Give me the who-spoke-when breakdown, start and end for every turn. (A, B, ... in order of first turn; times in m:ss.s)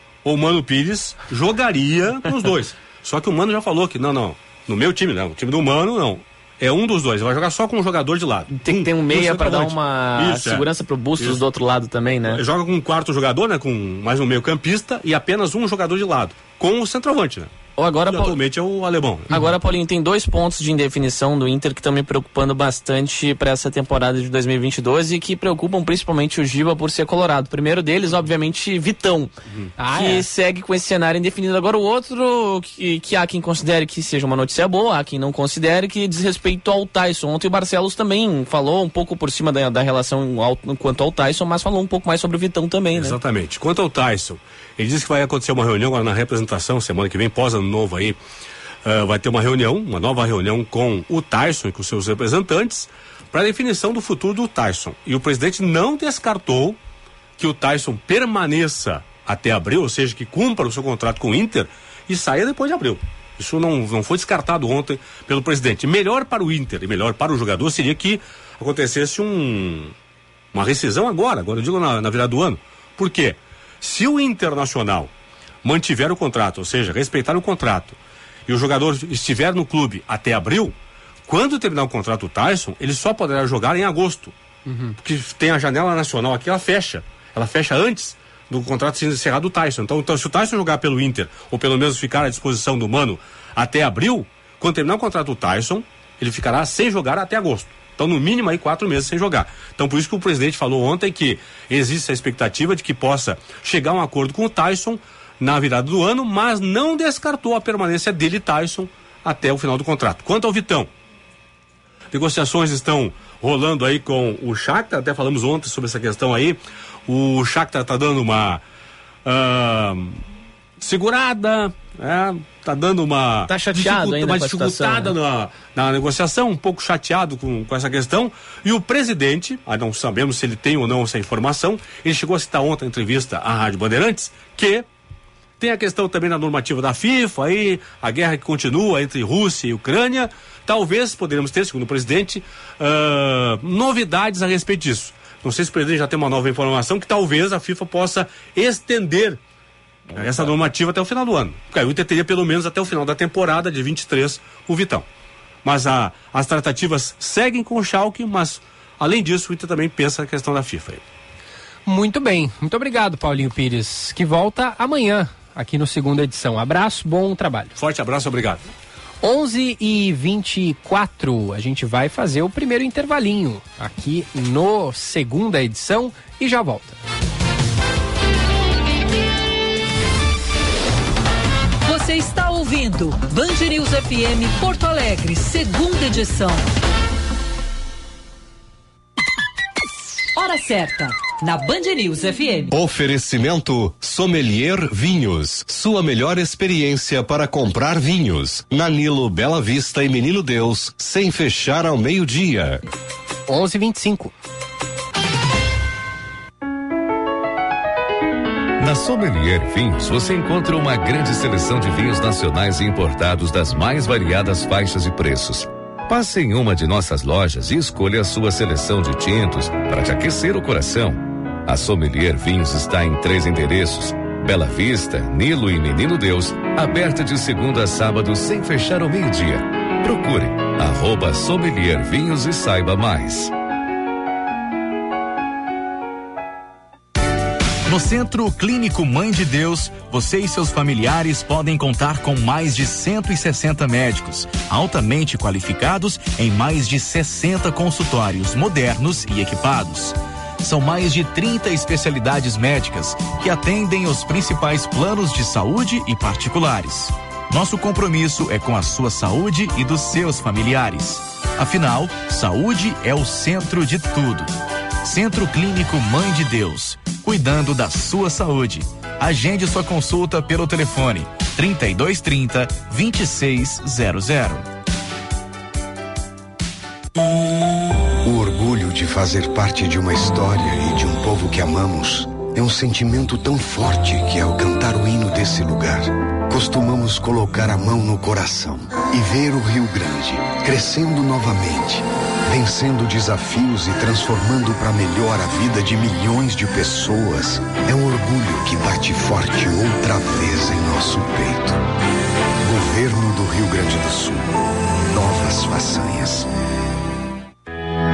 0:00.2-0:10.6 A
0:08.5-0:12.4 B
0:12.3-0:17.5 A
0:17.8-0:18.4 B
0:18.1-0:19.4 A
0:19.3-0:29.3 B
0:29.8-0:30.3 C
0:29.9-0:43.2 B
0:42.9-0:48.2 A
0:48.8-0:56.8 A
0:57.4-1:09.9 A
1:10.5-1:15.1 A
1:15.6-1:24.3 A
1:24.6-1:25.0 C
1:25.0-1:50.9 A
1:52.1-1:58.6 A
1:59.2-2:00.2 A
2:00.8-2:14.9 A
2:03.4-2:05.1 B
2:15.6-2:29.4 A
2:30.1-2:30.5 B
2:30.1-2:35.0 A
2:35.6-2:41.0 A
2:41.9-2:47.7 C
2:47.8-2:48.6 A
2:49.2-2:57.0 C
3:01.8-3:06.7 D
3:10.4-3:12.7 D
3:12.7-3:22.8 E
3:23.5-3:24.3 C
3:28.8-3:53.5 F
3:57.9-4:24.5 G
4:25.0-4:34.6 G
4:38.2-5:01.8 H
5:02.6-5:06.5 H